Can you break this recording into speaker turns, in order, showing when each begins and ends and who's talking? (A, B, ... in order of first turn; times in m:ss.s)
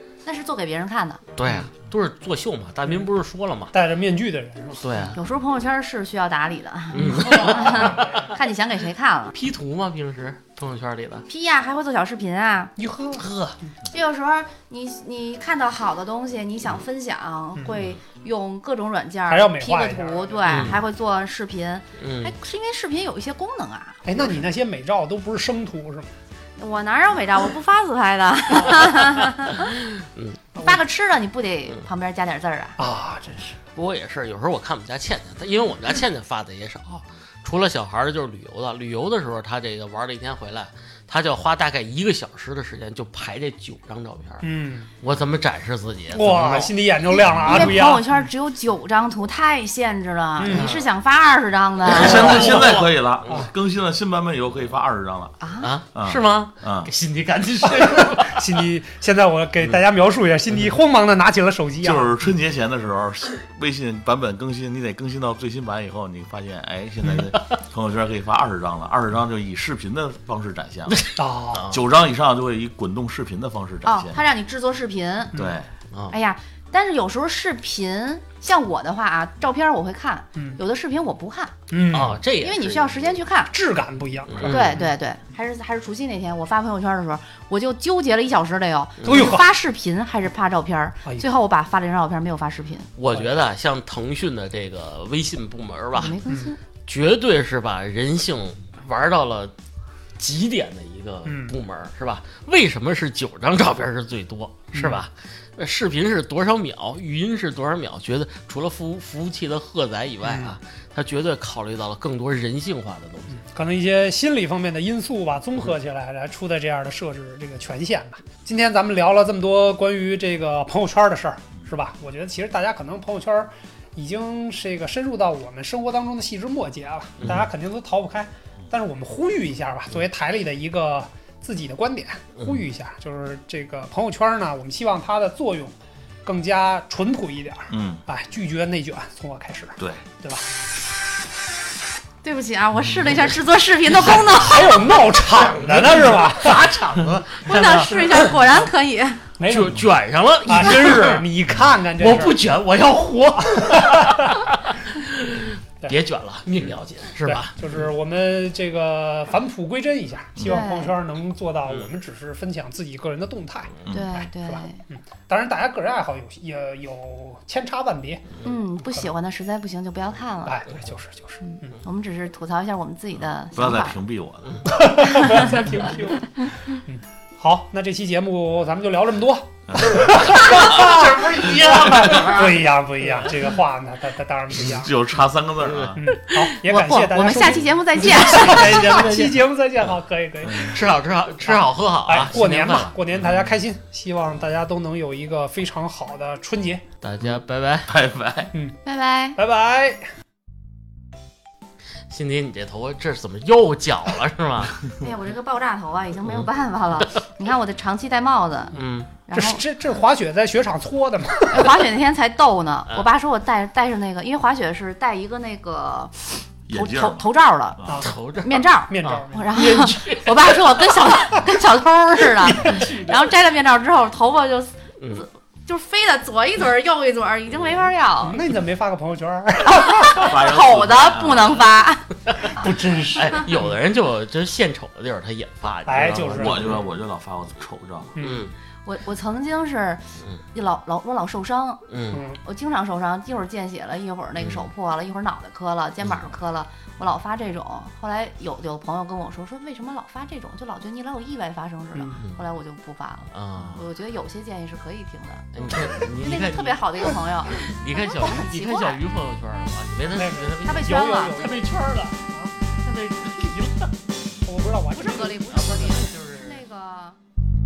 0:00.2-0:01.2 A
0:01.4-0:03.7 B
0:03.7-0:05.1 C
0:04.8-0:05.2 B
0:05.1-0:09.4 A
0:06.9-0:08.4 B
0:07.0-0:08.3 C
0:09.3-0:11.2 B
0:11.3-0:12.7 A
0:12.8-0:13.2 C
0:13.1-0:13.6 B
0:13.9-0:24.2 A
0:19.3-0:20.7 C
0:20.5-0:20.8 B
0:22.0-0:22.3 B
0:24.0-0:26.1 C
0:26.6-0:29.7 A
0:28.9-0:30.4 B
0:30.6-0:30.8 C
0:30.6-0:32.8 A
0:32.8-0:33.6 C
0:33.7-0:44.5 B
0:44.4-0:44.9 C
0:45.0-0:47.6 B
0:46.1-0:48.0 C
0:47.4-0:52.5 A
0:50.4-0:50.8 C
0:50.5-0:50.8 B
0:51.8-0:55.3 D
0:51.9-0:53.5 B
0:55.4-0:55.7 A
0:55.6-0:58.6 B
0:55.9-0:56.9 D
0:57.6-1:02.1 C
1:01.8-1:11.1 D
1:07.0-1:07.3 C
1:10.9-1:11.8 B
1:11.2-1:11.7 C
1:11.6-1:14.2 D
1:13.8-1:15.3 A
1:15.3-1:15.7 D
1:16.1-1:21.5 A
1:21.7-1:22.2 C
1:21.9-1:23.2 B
1:22.4-1:23.5 A
1:23.5-1:24.9 C
1:24.3-1:24.9 B
1:24.4-1:32.9 A
1:29.0-1:29.5 C
1:33.0-1:36.2 B
1:35.9-1:36.6 A
1:36.8-1:39.5 B
1:40.2-1:53.4 B
1:41.2-1:41.6 C
1:44.7-1:45.0 C
1:50.2-1:50.6 C
1:53.4-2:20.4 C
2:17.7-2:18.0 D
2:19.8-2:20.0 D
2:22.2-2:24.8 A
2:24.0-2:26.7 C
2:25.2-2:28.1 B
2:27.4-2:29.2 A
2:29.4-2:29.8 C
2:29.4-2:31.3 B
2:30.5-2:32.4 C
2:32.0-2:37.6 B
2:33.4-2:34.3 C
2:37.2-2:48.3 C
2:40.4-2:40.9 A
2:43.9-2:44.8 A
2:48.4-2:50.6 A
2:50.4-2:51.7 C
2:51.4-2:54.0 A
2:53.5-2:54.7 D
2:54.7-3:04.9 C
2:59.7-3:00.6 D
3:00.2-3:03.4 B
3:04.6-3:06.0 D
3:05.6-3:06.1 B
3:06.0-3:10.8 C
3:06.3-3:09.0 A
3:08.0-3:09.4 B
3:10.5-3:12.9 B
3:11.4-3:16.8 C
3:17.0-3:17.9 B
3:17.8-3:18.5 D
3:18.8-3:19.4 A
3:19.4-3:20.0 C
3:22.1-3:24.8 B
3:25.0-3:29.6 A
3:28.7-3:29.1 B
3:29.3-3:31.7 C
3:31.5-3:37.8 A
3:36.7-3:38.0 D
3:37.9-3:38.1 C
3:38.0-3:40.8 B
3:38.4-3:48.4 A
3:38.9-3:39.6 C
3:42.4-3:43.3 C
3:45.0-3:45.2 B
3:48.2-3:50.4 C
3:49.7-3:52.6 A
3:50.2-3:51.6 D
3:52.5-3:53.7 C
3:53.2-3:56.8 B
3:55.9-3:56.8 C
3:56.3-3:58.2 D
3:58.2-3:58.5 C
3:58.2-3:58.5 B
3:58.8-4:01.8 A
4:01.9-4:02.2 B
4:02.1-4:02.4 C
4:02.4-4:19.0 A
4:04.4-4:04.7 B
4:13.3-4:13.8 B
4:15.5-4:16.8 B
4:15.7-4:16.1 C
4:17.5-4:23.9 B
4:20.1-4:22.5 C
4:20.6-4:21.5 A
4:24.4-4:25.8 C
4:24.9-4:27.2 A
4:25.5-4:26.6 B